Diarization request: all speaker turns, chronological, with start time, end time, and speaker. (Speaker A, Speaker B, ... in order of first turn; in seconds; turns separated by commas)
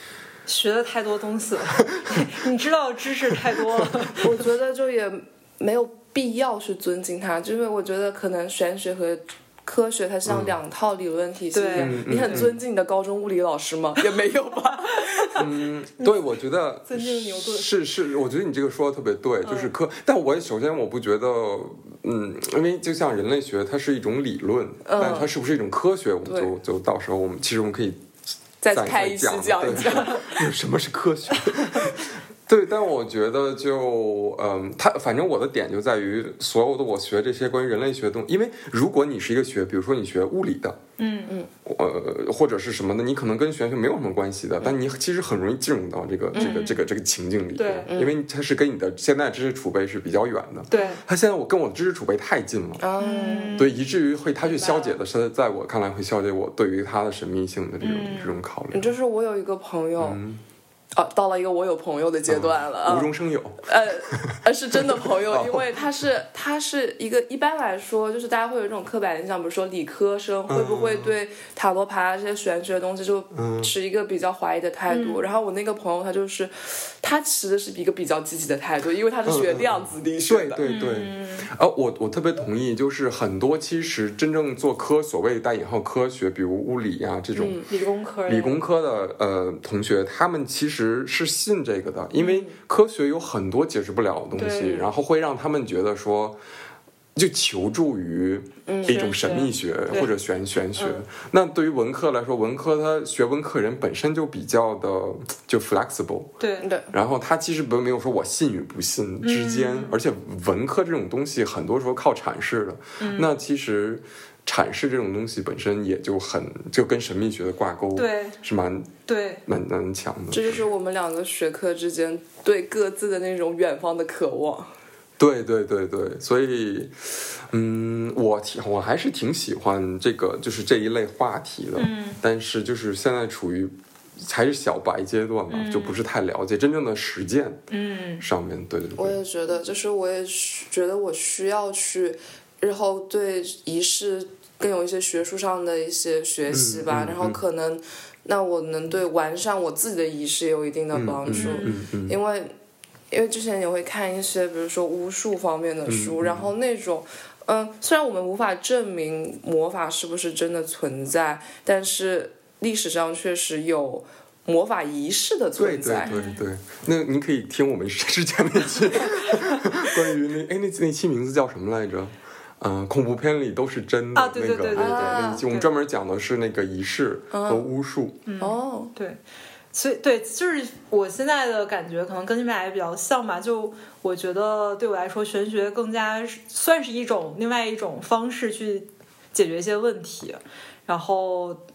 Speaker A: 0.5-4.4, Speaker B: 1.8-2.3, Speaker C: 4.2-15.5, Speaker B: 10.2-10.6, Speaker A: 11.5-12.5, Speaker B: 11.8-12.6, Speaker A: 14.9-15.4, Speaker B: 15.4-28.0, Speaker A: 16.0-16.2, Speaker A: 16.9-17.7, Speaker A: 19.4-19.7, Speaker C: 24.9-25.3, Speaker C: 26.2-26.5, Speaker C: 28.6-30.4, Speaker B: 28.7-40.8, Speaker A: 41.0-41.4, Speaker B: 41.6-52.8, Speaker C: 46.3-46.7, Speaker A: 46.3-46.8, Speaker A: 47.6-47.9, Speaker C: 47.9-48.1, Speaker A: 50.7-51.0, Speaker C: 52.8-53.7, Speaker A: 53.0-53.8, Speaker B: 53.6-58.9, Speaker A: 54.4-54.9, Speaker A: 57.8-58.4, Speaker C: 58.7-60.2, Speaker B: 60.0-60.4, Speaker C: 61.0-80.6, Speaker B: 62.3-66.1, Speaker B: 70.5-71.1, Speaker B: 73.3-73.7, Speaker A: 74.9-75.2, Speaker B: 79.2-87.6, Speaker A: 80.6-81.5, Speaker C: 87.3-87.7, Speaker A: 87.7-88.6, Speaker B: 88.2-96.4, Speaker A: 92.2-92.5, Speaker A: 94.3-94.9, Speaker B: 97.1-106.3, Speaker C: 98.7-99.1, Speaker A: 98.8-100.1, Speaker A: 106.4-106.7, Speaker C: 106.6-106.9, Speaker B: 106.9-118.9, Speaker A: 109.2-110.0, Speaker A: 113.0-113.3, Speaker A: 117.9-118.4, Speaker A: 119.1-119.4, Speaker B: 119.5-120.6, Speaker C: 120.3-124.7, Speaker B: 125.2-137.6, Speaker A: 131.8-132.2, Speaker A: 135.5-136.0, Speaker A: 137.7-138.2, Speaker B: 138.2-139.2, Speaker C: 138.9-152.5, Speaker B: 146.5-147.4, Speaker B: 150.9-152.2, Speaker A: 151.3-151.8, Speaker C: 153.1-166.1, Speaker B: 155.9-156.5, Speaker B: 165.6-178.2, Speaker A: 166.0-166.4, Speaker A: 169.3-169.5, Speaker A: 174.1-175.7, Speaker C: 174.7-175.4, Speaker C: 177.3-177.7, Speaker A: 178.2-179.2, Speaker C: 178.4-178.9, Speaker A: 179.7-191.6